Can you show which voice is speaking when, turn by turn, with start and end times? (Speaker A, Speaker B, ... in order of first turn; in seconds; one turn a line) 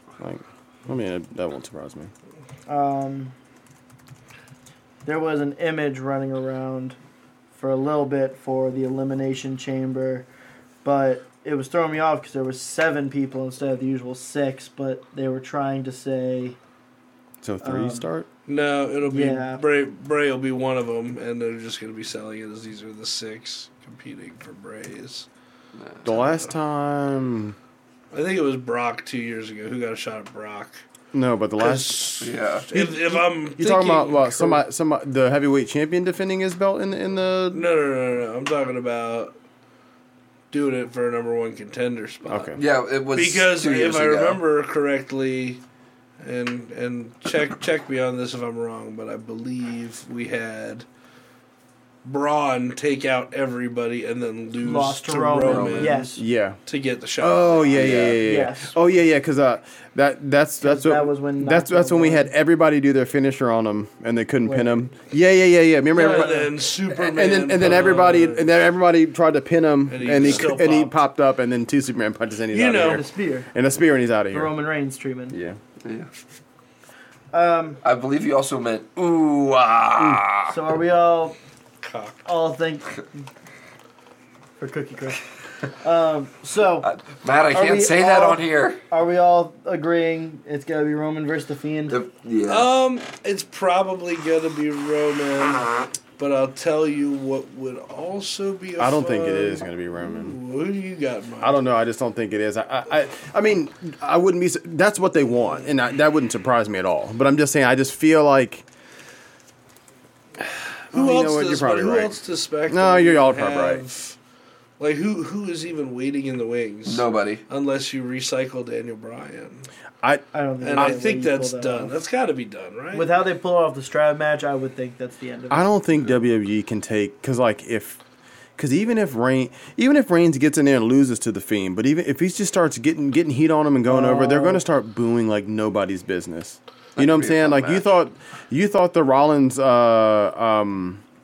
Speaker A: 0.2-2.1
Speaker B: 2.7-3.3
Speaker B: 5.0-7.0
Speaker B: 7.5-10.3
Speaker B: 10.8-16.6
Speaker A: 17.4-18.3
Speaker B: 17.6-18.1
Speaker C: 18.5-25.3
Speaker B: 19.1-19.6
Speaker D: 25.8-26.1
Speaker A: 26.0-27.6
Speaker C: 28.1-30.8
Speaker A: 31.1-37.7
Speaker C: 31.6-34.6
Speaker D: 32.2-32.7
Speaker C: 37.5-39.3
Speaker C: 40.5-45.6
Speaker A: 42.3-42.6
Speaker D: 42.6-44.4
Speaker C: 46.2-50.9
Speaker C: 52.0-56.1
Speaker B: 54.6-56.2
Speaker D: 55.4-56.0
Speaker A: 56.2-56.6
Speaker C: 56.7-58.2
Speaker A: 57.2-66.4
Speaker D: 57.7-58.2
Speaker B: 58.2-58.8
Speaker B: 60.6-62.3
Speaker B: 64.4-64.8
Speaker B: 65.9-66.5
Speaker C: 65.9-68.5
Speaker A: 67.0-74.5
Speaker C: 69.9-71.0
Speaker D: 70.2-70.5
Speaker C: 72.5-73.0
Speaker B: 72.8-73.5
Speaker B: 74.3-75.4
Speaker A: 75.3-75.6
Speaker D: 75.8-76.1
Speaker B: 77.3-77.8
Speaker D: 77.8-80.5
Speaker B: 80.5-81.4
Speaker C: 81.8-82.2
Speaker B: 82.2-83.0
Speaker B: 84.6-86.9
Speaker D: 86.8-88.8
Speaker B: 87.5-92.0
Speaker D: 91.9-92.7
Speaker C: 92.5-101.6
Speaker A: 98.8-100.4
Speaker A: 101.4-108.7
Speaker C: 110.9-114.2
Speaker A: 110.9-112.2
Speaker A: 112.7-113.8
Speaker C: 114.8-119.7
Speaker D: 116.9-117.4
Speaker B: 120.3-121.9
Speaker C: 120.6-123.1
Speaker B: 122.9-125.7
Speaker A: 125.5-128.0
Speaker A: 128.6-141.0
Speaker B: 133.9-134.6
Speaker D: 137.0-137.9